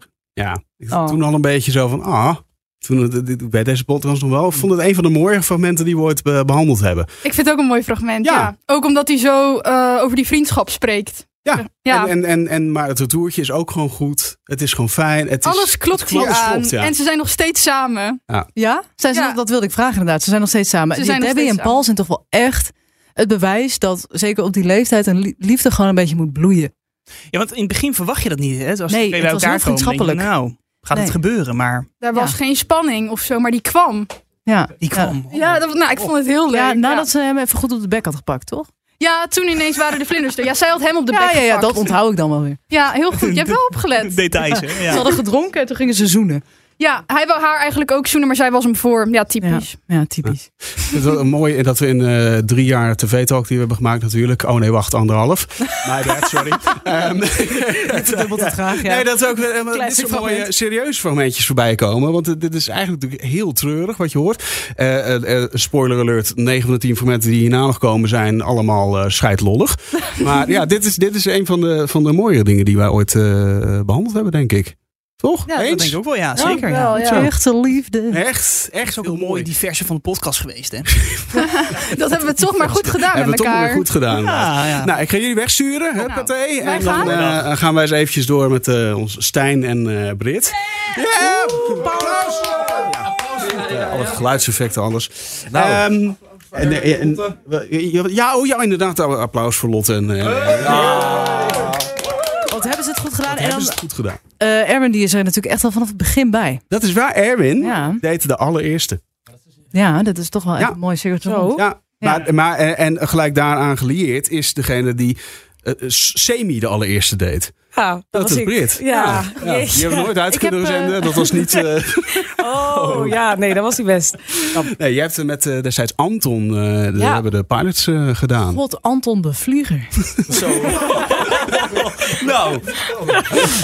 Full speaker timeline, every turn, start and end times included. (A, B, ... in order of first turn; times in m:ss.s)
0:00.4-0:07.1 A
0:07.2-0:12.1 B
0:08.2-0:08.5 A
0:11.4-0:16.9 A
0:15.4-0:18.2 B
0:18.6-0:26.7 C
0:19.1-0:19.4 B
0:20.9-0:21.8 B
0:27.3-0:31.9 D
0:28.9-0:30.3 C
0:32.0-0:34.1 B
0:34.4-0:35.2 C
0:34.8-0:35.4 D
0:35.3-0:37.1 B
0:36.5-0:38.7 C
0:39.0-0:41.9 B
0:41.1-0:42.7 C
0:42.7-0:44.4 B
0:43.2-0:45.0 D
0:44.5-0:46.4 C
0:46.8-0:49.7 B
0:49.4-0:50.9 C
0:50.9-1:16.0 A
0:57.8-0:59.1 C
0:59.7-1:00.5 C
1:15.5-1:17.0 D
1:16.4-1:18.2 C
1:16.8-1:17.2 B
1:16.9-1:17.3 A
1:18.1-1:19.5 A
1:18.9-1:20.9 D
1:21.3-1:23.9 B
1:22.7-1:41.7 A
1:24.1-1:24.9 D
1:26.0-1:27.2 B
1:26.8-1:27.0 C
1:42.5-1:43.8 C
1:43.3-1:44.2 A
1:44.4-1:46.6 C
1:46.7-1:49.0 A
1:47.6-1:48.0 C
1:49.7-1:52.2 C
1:51.2-1:51.6 E
1:51.6-1:57.5 A
1:57.7-2:00.5 E
1:58.1-2:03.2 A
2:01.1-2:01.4 E
2:02.2-2:04.4 E
2:04.5-2:08.6 A
2:07.0-2:07.2 E
2:08.5-2:09.9 C